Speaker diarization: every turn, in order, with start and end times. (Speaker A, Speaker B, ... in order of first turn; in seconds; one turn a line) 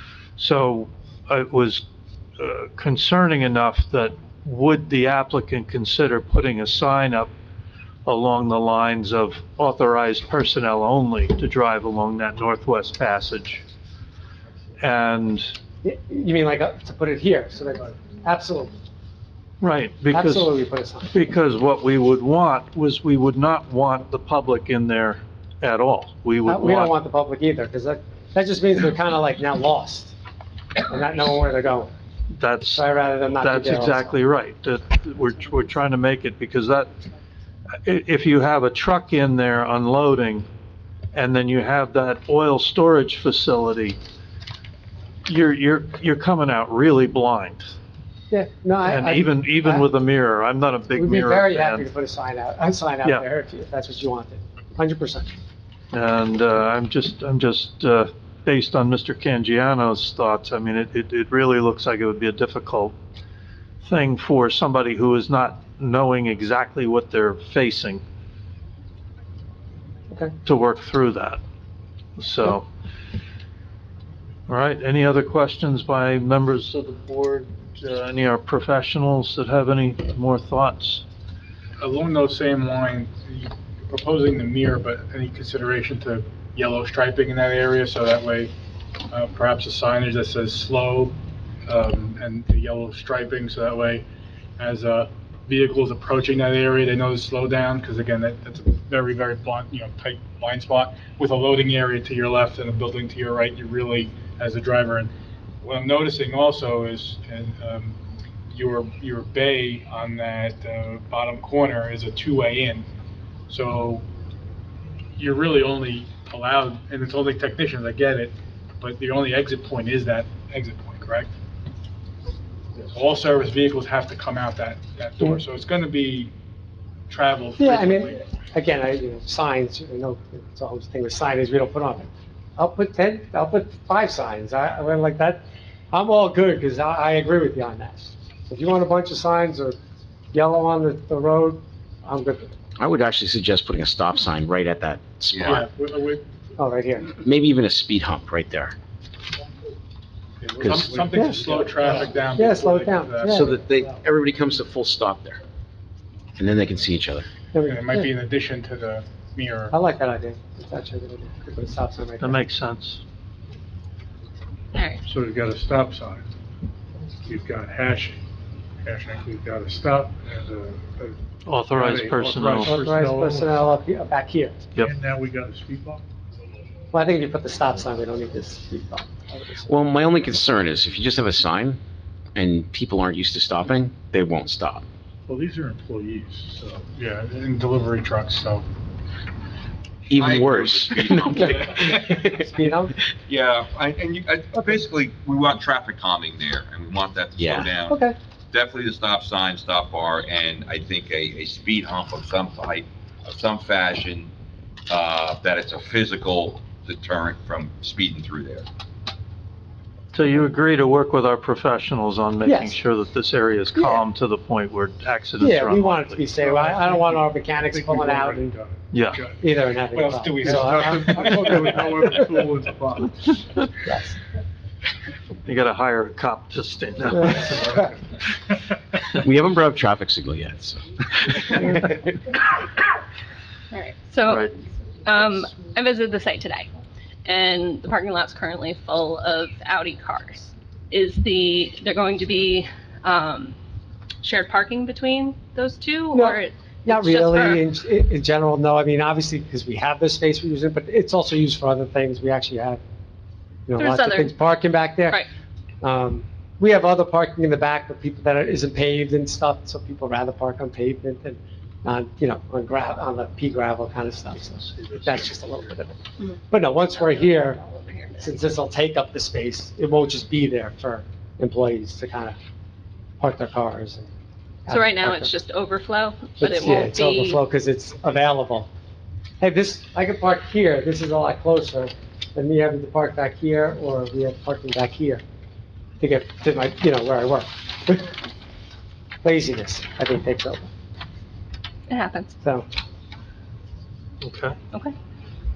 Speaker A: 0.4-1.8
Speaker A: 2.4-7.3
Speaker A: 8.0-13.6
Speaker A: 14.8-15.5
Speaker B: 15.8-18.7
Speaker A: 19.6-20.5
Speaker B: 20.1-21.1
Speaker A: 21.1-26.9
Speaker B: 26.4-30.1
Speaker B: 30.8-31.9
Speaker A: 32.3-32.9
Speaker B: 32.7-34.1
Speaker A: 33.4-36.9
Speaker A: 37.8-40.5
Speaker A: 41.1-44.0
Speaker A: 45.2-47.8
Speaker B: 48.3-49.9
Speaker A: 48.8-51.9
Speaker B: 50.9-55.4
Speaker A: 55.9-63.0
Speaker A: 63.8-68.0
Speaker A: 70.4-71.4
Speaker A: 72.2-72.7
Speaker A: 74.5-81.0
Speaker C: 81.8-88.5
Speaker C: 89.1-91.2
Speaker C: 91.7-94.0
Speaker C: 94.6-105.1
Speaker C: 105.6-108.0
Speaker C: 108.5-112.9
Speaker C: 113.5-114.0
Speaker C: 115.2-121.3
Speaker C: 122.9-126.3
Speaker C: 127.1-128.2
Speaker B: 127.6-139.8
Speaker B: 140.3-142.5
Speaker D: 142.8-145.6
Speaker E: 145.3-145.6
Speaker C: 145.5-146.2
Speaker B: 146.6-147.1
Speaker D: 147.2-148.7
Speaker C: 150.4-153.5
Speaker D: 150.6-151.0
Speaker F: 150.7-152.2
Speaker B: 151.1-153.6
Speaker D: 153.2-155.4
Speaker D: 156.4-157.3
Speaker B: 157.5-158.1
Speaker C: 157.6-159.7
Speaker B: 159.7-162.4
Speaker A: 162.2-163.0
Speaker G: 164.7-165.0
Speaker F: 165.0-166.2
Speaker F: 167.2-168.2
Speaker C: 168.8-169.2
Speaker F: 168.9-171.2
Speaker A: 171.4-172.8
Speaker F: 171.7-173.6
Speaker B: 172.6-174.7
Speaker F: 174.8-176.0
Speaker B: 176.9-179.7
Speaker D: 179.7-181.8
Speaker D: 182.3-184.8
Speaker F: 185.3-186.9
Speaker C: 186.9-188.7
Speaker D: 190.1-192.5
Speaker E: 190.1-192.2
Speaker B: 192.2-192.9
Speaker E: 193.3-198.0
Speaker D: 197.4-197.7
Speaker B: 197.9-198.2
Speaker E: 198.5-204.3
Speaker E: 204.9-208.7
Speaker A: 210.1-216.2
Speaker B: 212.4-212.8
Speaker B: 213.7-214.0
Speaker B: 215.4-218.6
Speaker F: 216.3-219.4
Speaker A: 218.9-219.2
Speaker B: 219.4-221.8
Speaker C: 219.9-221.3
Speaker F: 220.4-223.4
Speaker B: 223.8-224.2
Speaker A: 225.4-227.8
Speaker D: 229.1-232.1
Speaker G: 233.7-234.5
Speaker A: 234.3-234.5
Speaker G: 235.0-236.7
Speaker G: 237.2-243.6
Speaker G: 244.2-247.6
Speaker B: 246.1-252.8
Speaker B: 253.7-255.2
Speaker G: 253.8-254.3
Speaker B: 255.8-265.9
Speaker A: 264.3-265.8
Speaker B: 266.5-267.6
Speaker G: 266.9-268.4
Speaker B: 268.2-272.4
Speaker B: 273.2-274.1
Speaker B: 274.7-275.3
Speaker G: 274.7-277.4
Speaker B: 276.4-278.7
Speaker B: 279.4-285.2
Speaker B: 286.0-288.2
Speaker B: 289.2-290.7
Speaker G: 291.9-292.3
Speaker B: 292.4-292.7
Speaker A: 294.2-294.6